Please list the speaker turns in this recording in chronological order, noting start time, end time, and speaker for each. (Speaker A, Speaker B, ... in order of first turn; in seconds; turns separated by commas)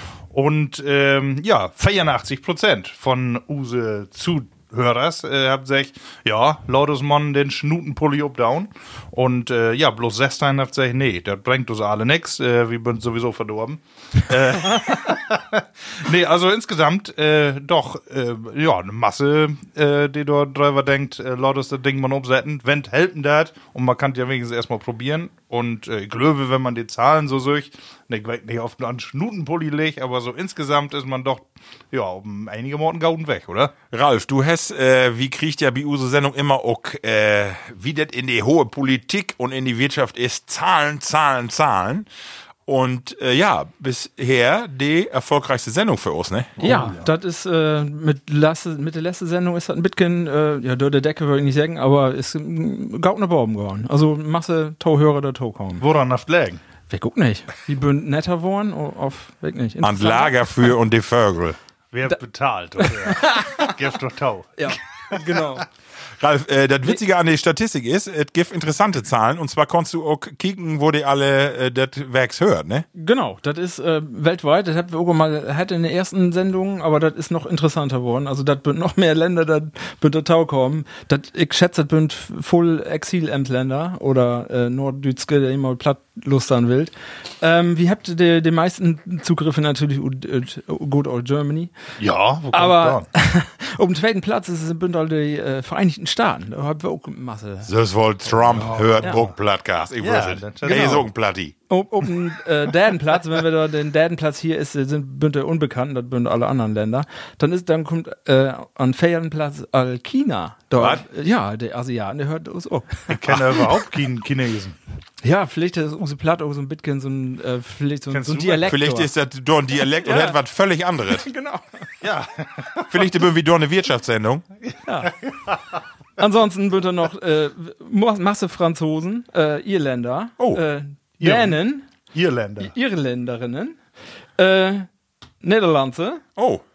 Speaker A: 0.3-33.7, Speaker B: 33.9-42.1, Speaker B: 42.7-46.9, Speaker A: 46.6-47.1, Speaker C: 46.6-55.8, Speaker A: 55.8-56.6, Speaker C: 56.9-60.4, Speaker B: 59.8-61.6, Speaker A: 61.9-65.2, Speaker C: 62.8-63.6, Speaker C: 64.6-65.7, Speaker B: 66.2-72.8, Speaker C: 72.9-91.7, Speaker A: 92.0-93.1, Speaker C: 92.5-97.7, Speaker B: 97.6-101.5, Speaker C: 98.5-99.2, Speaker A: 98.5-99.2, Speaker A: 100.0-101.1, Speaker C: 100.7-101.0, Speaker C: 101.7-113.6, Speaker A: 113.1-114.8, Speaker C: 115.2-119.1, Speaker A: 118.1-118.7, Speaker B: 118.6-121.2, Speaker C: 120.0-120.4, Speaker C: 121.1-121.9, Speaker A: 122.0-123.0, Speaker B: 122.9-124.4, Speaker C: 124.8-125.1, Speaker C: 126.2-131.9, Speaker A: 131.2-131.6, Speaker A: 132.1-132.7, Speaker C: 132.6-133.8, Speaker C: 134.4-134.9, Speaker C: 135.4-136.2, Speaker B: 136.4-136.6